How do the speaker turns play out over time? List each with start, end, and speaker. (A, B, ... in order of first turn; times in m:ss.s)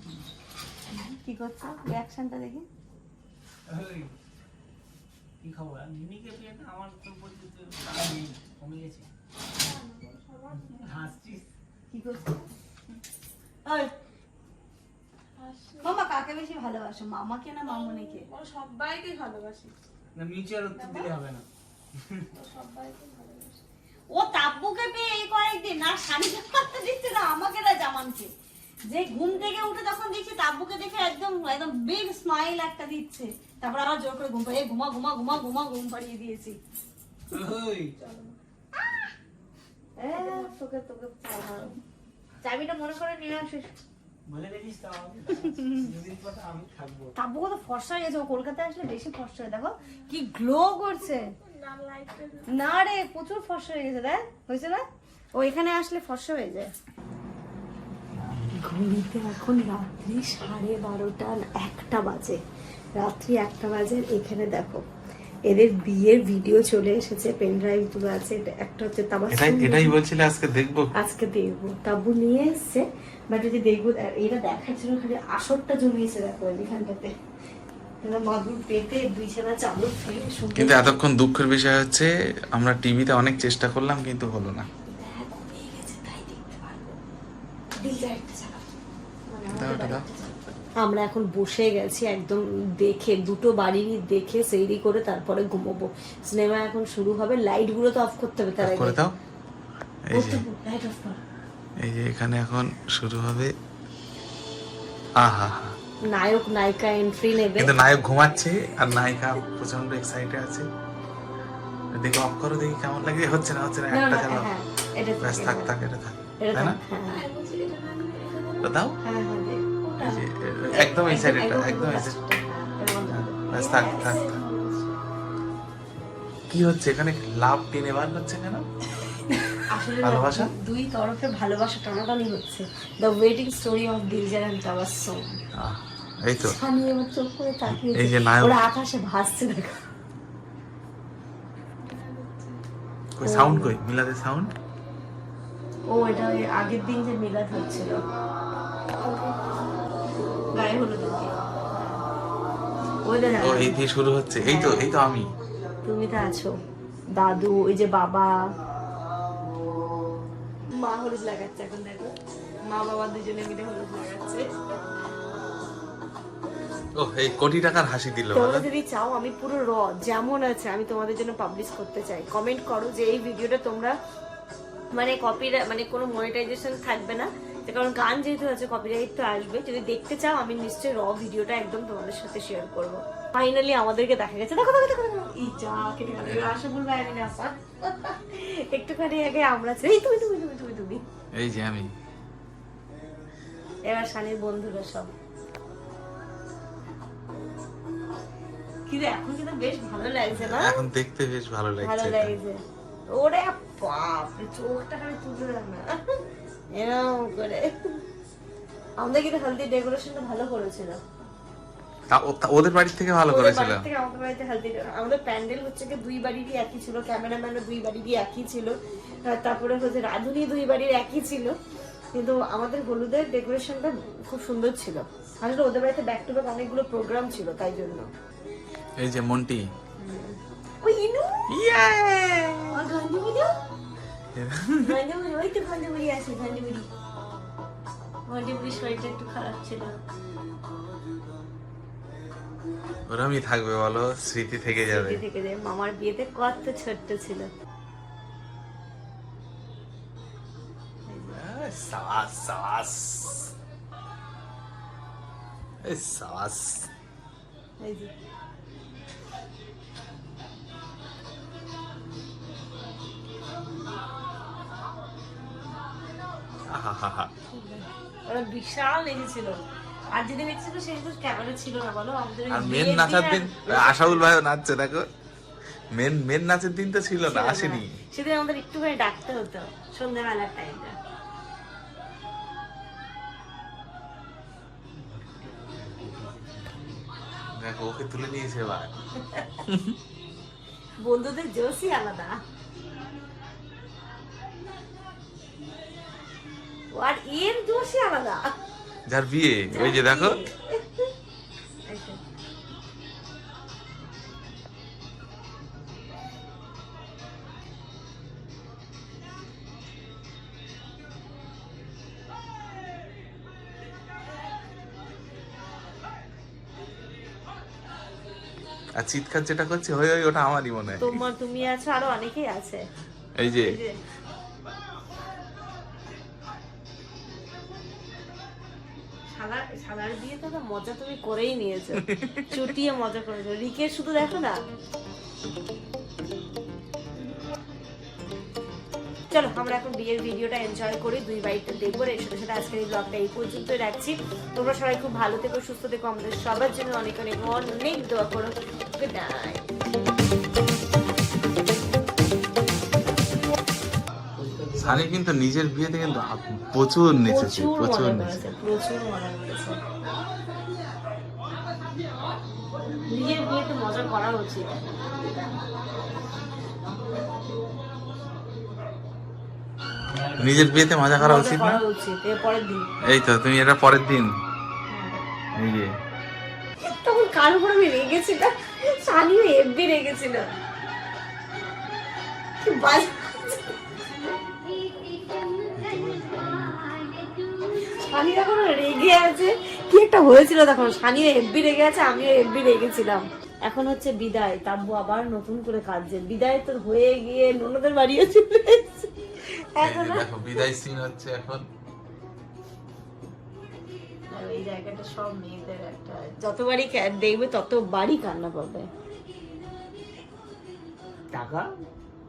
0:00.9-0:02.6 A
0:03.7-0:04.1 B
0:05.4-0:09.1 B
0:09.7-0:10.5 A
0:10.5-0:11.5 B
0:11.9-0:12.5 A
0:13.6-0:13.9 A
0:15.4-0:19.7 A
0:20.2-0:21.4 B
0:20.7-0:21.1 A
0:22.3-0:23.6 A
0:24.1-0:28.3 A
0:28.9-0:36.6 A
0:37.3-0:38.0 B
0:38.0-0:38.3 A
0:40.0-0:41.8 A
0:42.4-0:43.7 A
0:44.3-0:47.1 B
0:45.4-0:45.9 A
0:47.2-0:51.3 A
0:52.5-0:54.8 A
0:55.3-0:56.7 A
0:58.5-1:02.4 A
1:03.0-1:04.8 A
1:05.5-1:10.0 A
1:09.3-1:10.8 C
1:11.0-1:17.1 A
1:18.0-1:21.0 A
1:20.6-1:24.7 C
1:24.9-1:27.0 A
1:27.8-1:28.6 A
1:29.3-1:39.0 A
1:29.5-1:30.0 C
1:38.6-1:39.1 C
1:40.1-1:40.4 C
1:40.1-1:41.2 A
1:41.8-1:43.5 C
1:45.2-1:45.7 C
1:46.1-1:47.8 A
1:47.5-1:50.6 C
1:52.0-1:54.5 C
1:53.9-1:55.7 A
1:55.2-1:56.8 C
1:56.4-1:57.2 A
1:57.3-1:58.5 B
1:58.6-1:58.9 C
1:59.0-2:00.2 A
2:00.0-2:02.2 C
2:00.7-2:04.8 A
2:03.1-2:04.4 C
2:06.5-2:08.6 C
2:09.3-2:15.4 A
2:10.0-2:10.5 C
2:15.6-2:16.5 C
2:16.3-2:19.8 A
2:17.8-2:18.5 C
2:21.9-2:22.5 A
2:23.2-2:24.5 C
2:23.2-2:23.7 A
2:25.9-2:28.0 A
2:30.5-2:32.0 A
2:33.0-2:33.8 A
2:33.4-2:35.2 C
2:34.4-2:34.8 A
2:35.8-2:36.5 A
2:37.2-2:38.3 A
2:40.8-2:42.1 A
2:42.7-2:44.4 A
2:47.0-2:48.6 C
2:48.3-2:53.9 A
2:55.0-3:11.0 A
3:11.4-3:11.9 C
3:13.9-3:15.1 A
3:18.9-3:20.8 A
3:20.3-3:22.3 C
3:21.8-3:22.6 A
3:23.1-3:26.0 A
3:26.7-3:28.0 A
3:29.0-3:31.0 A
3:32.1-3:33.9 C
3:33.3-3:38.7 A
3:39.3-3:41.5 A
3:42.1-3:48.0 A
3:49.0-3:49.6 C
3:50.0-3:51.3 A
3:51.5-3:52.8 C
3:52.7-3:53.5 A
3:54.4-3:54.9 C
3:54.8-3:56.9 A
3:58.3-3:59.9 A
4:03.1-4:05.2 C
4:04.9-4:07.5 A
4:11.1-4:11.4 A
4:11.4-4:13.5 C
4:15.8-4:16.9 C
4:17.8-4:18.1 A
4:26.7-4:27.3 C
4:27.5-4:29.6 A
4:30.1-4:34.3 A
4:32.5-4:35.0 C
4:36.0-4:38.0 C
4:37.2-4:41.0 A
4:45.0-4:47.0 B
4:47.6-4:48.9 C
4:49.3-4:49.6 A
4:49.7-4:49.9 C
4:51.0-4:52.4 A
4:56.9-4:58.5 A
4:59.1-5:00.4 C
4:59.7-5:01.1 A
5:01.9-5:02.2 A
5:19.0-5:21.2 C
5:21.0-5:22.8 A
5:23.4-5:23.6 C
5:23.6-5:23.9 A
5:29.3-5:34.6 A
5:32.1-5:32.6 C
5:39.3-5:49.6 A
5:54.4-5:55.1 B
5:54.8-5:58.5 C
5:57.3-5:59.8 A
6:03.1-6:05.0 A
6:10.1-6:10.9 B
6:10.4-6:11.8 C
6:11.2-6:12.8 A
6:13.1-6:14.3 C
6:14.9-6:15.2 A
6:15.6-6:15.9 C
6:16.8-6:20.4 A
6:22.6-6:23.7 A
6:25.8-6:26.9 B
6:27.8-6:39.1 A
6:39.8-6:40.3 A
6:39.8-6:41.6 C
6:44.3-6:48.9 A
6:51.3-6:51.7 B